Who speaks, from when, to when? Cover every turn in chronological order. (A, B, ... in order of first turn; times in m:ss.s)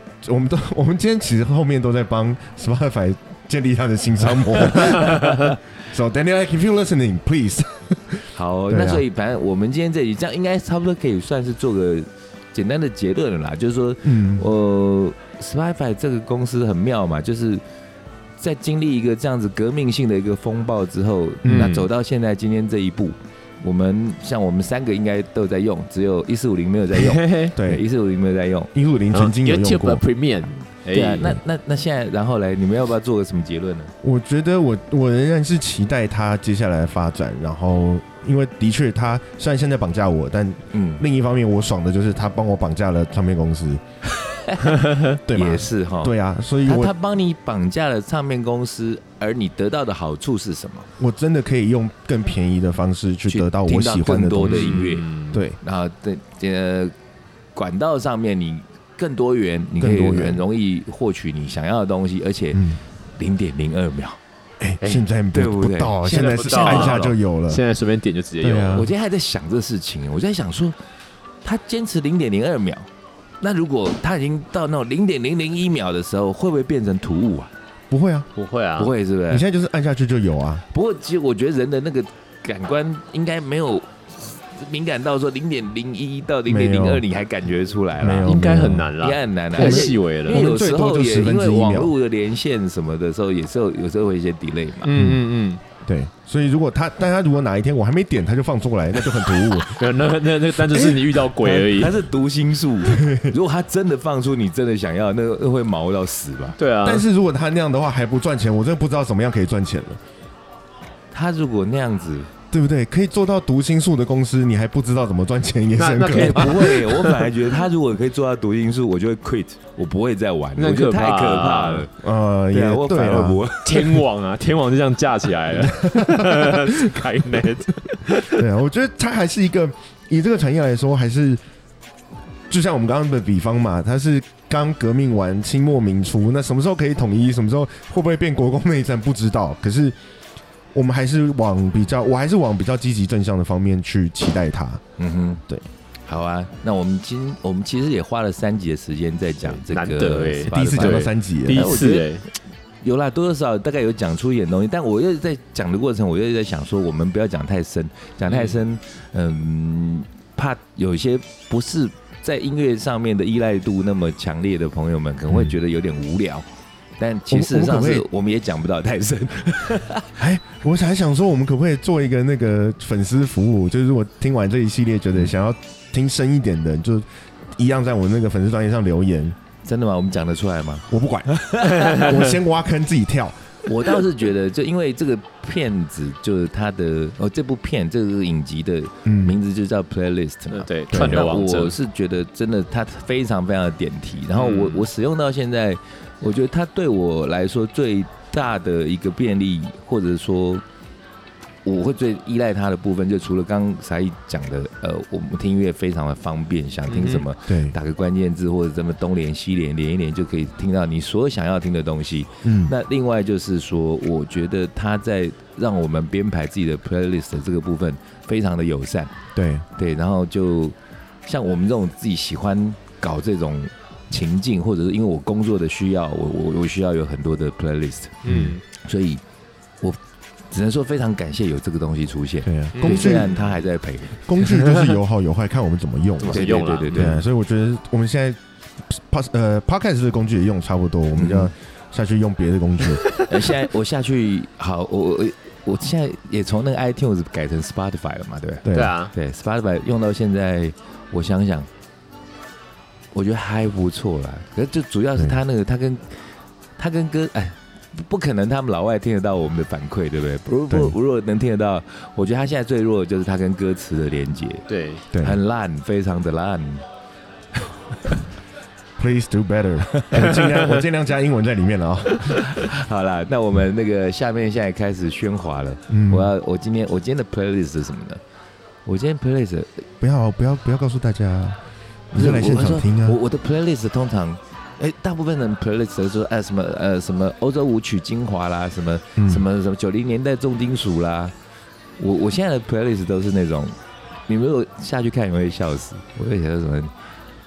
0:00.2-0:09.0 A
0:04.9-0:05.5 B
0:08.3-0:17.6 C
0:14.0-0:14.5 A
0:18.4-0:28.7 C
0:21.4-0:21.7 A
0:21.5-0:21.9 B
0:27.0-0:27.6 B
0:27.5-0:27.8 A
0:28.7-0:30.0 A
0:29.1-0:31.4 B
0:30.9-0:33.9 C
0:34.0-0:43.8 A
0:40.7-0:41.0 C
0:44.1-0:50.9 C
0:44.8-0:45.2 B
0:45.3-0:46.9 A
0:51.0-0:54.8 A
0:53.3-0:55.1 C
0:54.4-0:55.4 B
0:55.3-0:55.6 A
0:55.6-0:56.9 C
0:57.6-1:04.2 C
0:59.8-1:00.4 A
1:02.5-1:02.8 A
1:04.6-1:07.6 A
1:05.3-1:07.2 C
1:06.0-1:08.8 B
1:08.4-1:08.9 A
1:08.7-1:10.8 C
1:11.4-1:12.9 C
1:13.4-1:17.5 C
1:17.9-1:18.3 A
1:18.4-1:18.9 B
1:18.8-1:19.4 C
1:19.3-1:20.6 A
1:20.7-1:28.4 C
1:26.5-1:27.0 A
1:28.0-1:29.0 A
1:28.2-1:30.4 B
1:29.0-1:35.0 C
1:29.6-1:31.9 A
1:34.8-1:35.6 B
1:34.9-1:35.2 A
1:35.8-1:39.9 A
1:39.6-1:42.0 B
1:40.5-1:41.2 A
1:41.4-1:46.6 C
1:42.9-1:43.3 A
1:46.6-1:47.0 B
1:46.8-1:50.0 A
1:51.1-1:52.3 C
1:52.5-1:56.8 A
1:55.8-1:57.3 B
1:56.1-2:01.9 C
2:00.6-2:01.9 B
2:02.0-2:03.5 A
2:02.5-2:04.0 C
2:03.6-2:08.4 B
2:05.6-2:06.8 A
2:08.3-2:11.4 A
2:12.5-2:20.0 A
2:20.7-2:24.8 A
2:25.0-2:25.4 C
2:26.1-2:32.2 C
2:29.6-2:32.3 B
2:30.5-2:31.8 A
2:32.8-2:46.4 C
2:38.3-2:38.6 B
2:45.3-2:45.6 A
2:47.0-2:50.2 C
2:47.3-2:48.0 A
2:50.2-2:59.4 A
2:59.6-3:02.2 C
3:00.9-3:03.4 A
3:03.7-3:20.6 C
3:09.0-3:09.4 A
3:10.5-3:11.8 B
3:10.9-3:11.3 A
3:14.4-3:14.9 B
3:21.6-3:39.2 C
3:26.9-3:27.3 B
3:27.5-3:27.8 A
3:32.4-3:32.7 A
3:39.4-3:39.6 A
3:39.8-3:49.2 C
3:48.2-3:48.6 B
3:48.3-3:48.6 A
3:50.5-3:54.2 C
3:52.4-3:53.4 A
3:52.8-3:53.3 B
3:54.2-4:03.0 A
3:54.5-3:54.9 B
3:56.2-3:57.2 B
3:56.2-3:57.2 C
4:01.2-4:01.5 C
4:03.2-4:11.7 C
4:08.6-4:09.0 A
4:08.7-4:09.1 B
4:13.1-4:16.2 C
4:16.8-4:24.7 C
4:20.7-4:21.0 A
4:24.7-4:25.0 B
4:25.1-4:25.4 A
4:25.2-4:26.8 C
4:27.6-4:28.2 C
4:29.0-4:32.5 A
4:30.3-4:30.6 B
4:32.3-4:38.2 C
4:35.9-4:36.3 A
4:38.9-4:39.8 C
4:40.0-4:41.6 A
4:42.1-4:43.2 A
4:42.1-4:51.3 C
4:49.2-4:49.4 A
4:52.0-4:53.8 C
4:54.3-4:56.9 C